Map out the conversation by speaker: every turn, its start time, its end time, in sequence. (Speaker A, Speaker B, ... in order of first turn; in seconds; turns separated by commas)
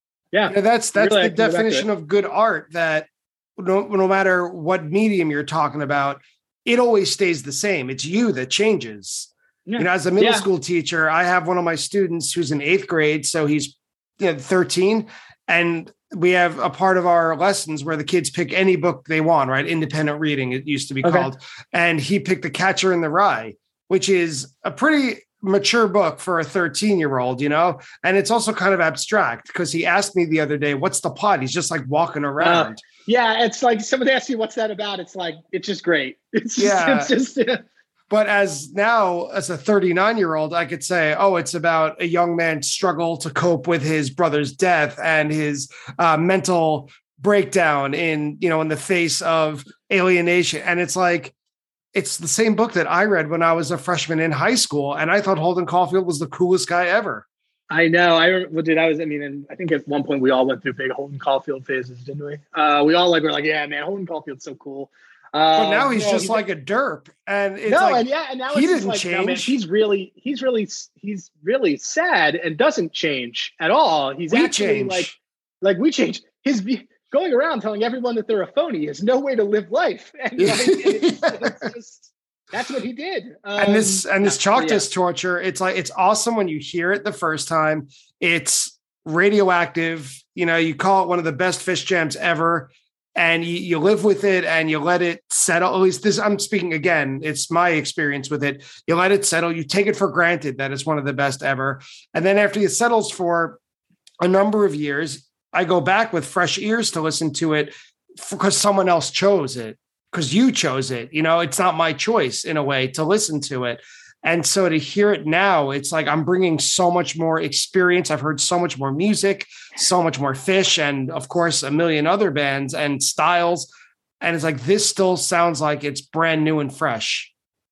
Speaker A: 0.3-1.9, Speaker B: 0.5-32.8, Speaker A: 9.7-10.5, Speaker A: 21.0-21.3, Speaker A: 32.4-37.6, Speaker B: 36.6-37.1, Speaker B: 38.1-51.3, Speaker B: 51.9-57.2, Speaker A: 57.7-66.4, Speaker B: 65.5-69.6, Speaker A: 67.7-84.8, Speaker B: 74.3-75.1, Speaker B: 80.4-81.7, Speaker B: 83.6-103.6, Speaker B: 104.2-123.7, Speaker B: 124.2-127.3